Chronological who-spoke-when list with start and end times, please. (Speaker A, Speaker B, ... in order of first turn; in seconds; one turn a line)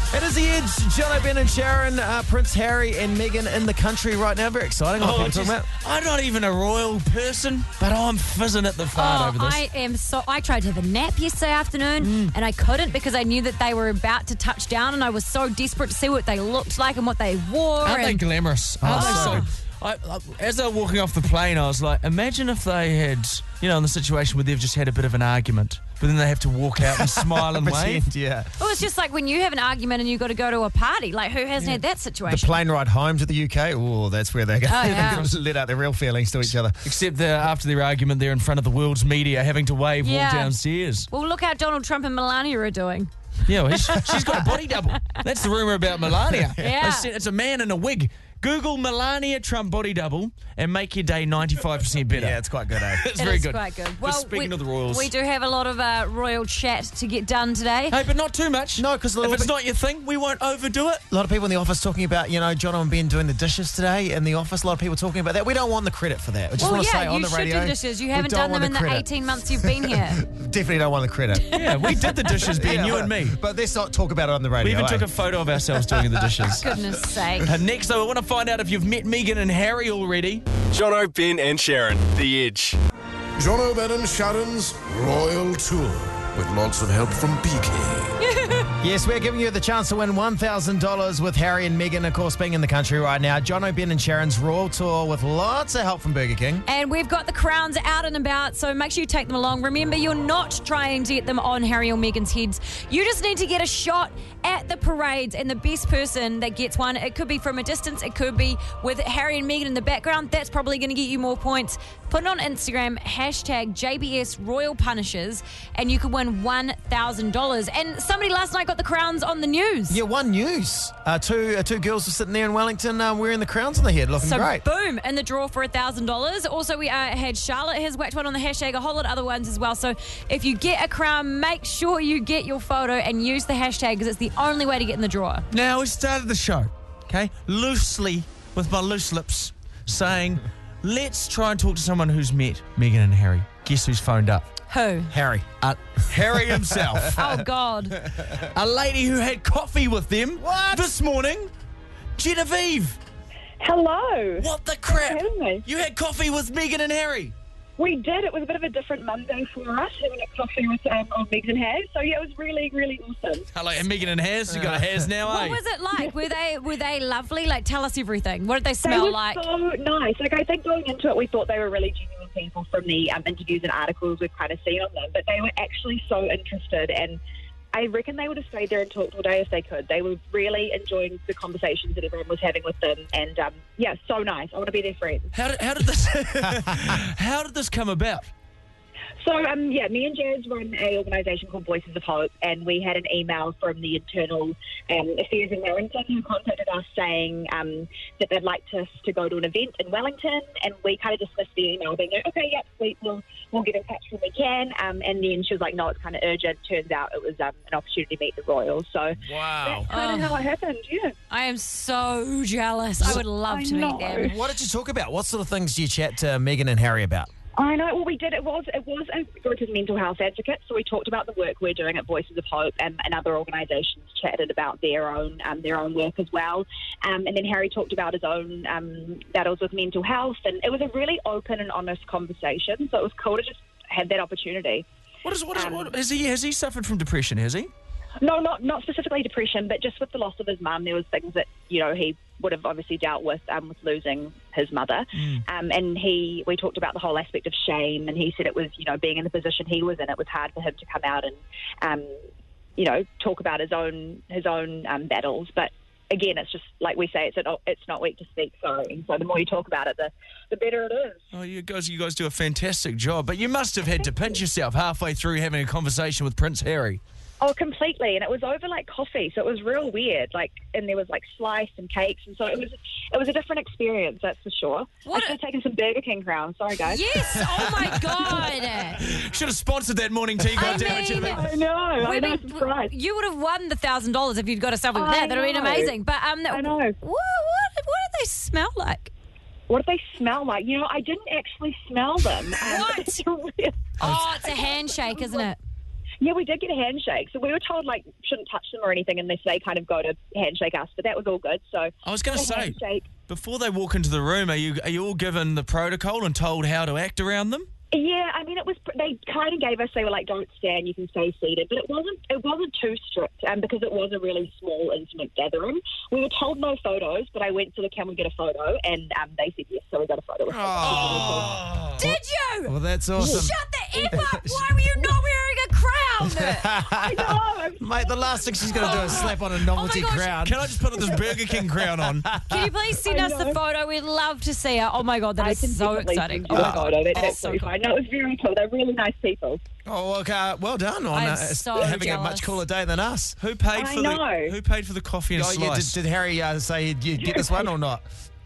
Speaker A: 0.1-5.7
Speaker B: 5.0-9.6
Speaker C: 9.0-18.2
Speaker B: 12.0-12.3
Speaker B: 17.8-28.0
Speaker A: 18.8-19.5
Speaker C: 18.9-19.5
Speaker A: 26.8-28.5
Speaker C: 28.6-32.5
Speaker A: 32.3-36.8
Speaker C: 34.7-35.3
Speaker B: 36.8-41.1
Speaker C: 40.0-40.6
Speaker C: 41.1-44.6
Speaker B: 43.5-55.1
Speaker A: 46.3-46.6
Speaker C: 46.6-47.1
Speaker A: 52.1-53.0
Speaker C: 53.2-58.0
Speaker B: 57.9-61.0
Speaker A: 58.8-59.5
Speaker A: 61.1-71.6
Speaker C: 66.6-70.2
Speaker B: 71.5-73.4
Speaker C: 71.5-72.4
Speaker A: 72.4-75.1
Speaker B: 74.6-76.7
Speaker A: 75.7-76.5
Speaker C: 76.5-77.5
Speaker B: 77.5-80.4
Speaker D: 80.7-82.8
Speaker E: 83.4-88.1
Speaker C: 88.2-88.7
Speaker A: 88.8-96.6
Speaker C: 96.7-120.0
Speaker A: 119.9-124.6
Speaker C: 124.2-135.5
Speaker B: 135.5-144.5
Speaker C: 144.7-145.1
Speaker A: 145.1-145.5
Speaker B: 145.6-147.2
Speaker A: 146.1-147.2
Speaker C: 147.2-148.0
Speaker B: 148.3-151.5
Speaker A: 150.4-150.9
Speaker B: 152.2-153.0
Speaker F: 153.6-155.6
Speaker B: 154.4-157.3
Speaker F: 157.8-163.5
Speaker B: 163.5-165.6
Speaker A: 164.5-164.9
Speaker C: 165.2-169.4
Speaker F: 168.8-177.2
Speaker F: 177.7-185.3
Speaker B: 185.3-188.3
Speaker F: 189.2-211.2
Speaker A: 209.2-209.9
Speaker C: 209.9-210.3
Speaker C: 211.3-214.3
Speaker F: 213.0-214.4
Speaker A: 214.1-217.3
Speaker F: 217.6-234.9
Speaker B: 235.2-237.7
Speaker F: 235.5-235.9
Speaker F: 238.2-252.2
Speaker B: 245.2-245.4
Speaker F: 252.8-261.2
Speaker B: 261.3-267.0
Speaker F: 267.4-277.0
Speaker C: 275.1-275.4
Speaker C: 276.9-279.0
Speaker B: 278.1-281.5
Speaker C: 280.6-281.4
Speaker F: 280.6-282.9
Speaker C: 282.0-289.1
Speaker F: 284.9-286.0
Speaker F: 286.5-287.0
Speaker F: 289.7-295.5
Speaker C: 292.6-293.2
Speaker C: 294.0-295.6
Speaker F: 296.2-303.1
Speaker B: 302.1-307.7
Speaker F: 307.9-321.6
Speaker A: 320.5-323.5
Speaker B: 320.8-322.0
Speaker C: 322.0-326.7
Speaker A: 324.1-324.7
Speaker A: 326.2-332.8
Speaker F: 326.9-329.2
Speaker C: 328.8-330.4
Speaker B: 330.4-332.3
Speaker C: 332.4-337.7
Speaker F: 333.1-333.6
Speaker F: 335.4-339.6
Speaker A: 336.5-337.2
Speaker A: 339.9-343.4
Speaker C: 341.1-342.6
Speaker B: 343.4-346.0
Speaker F: 343.8-344.6
Speaker A: 345.4-348.1
Speaker F: 347.2-347.7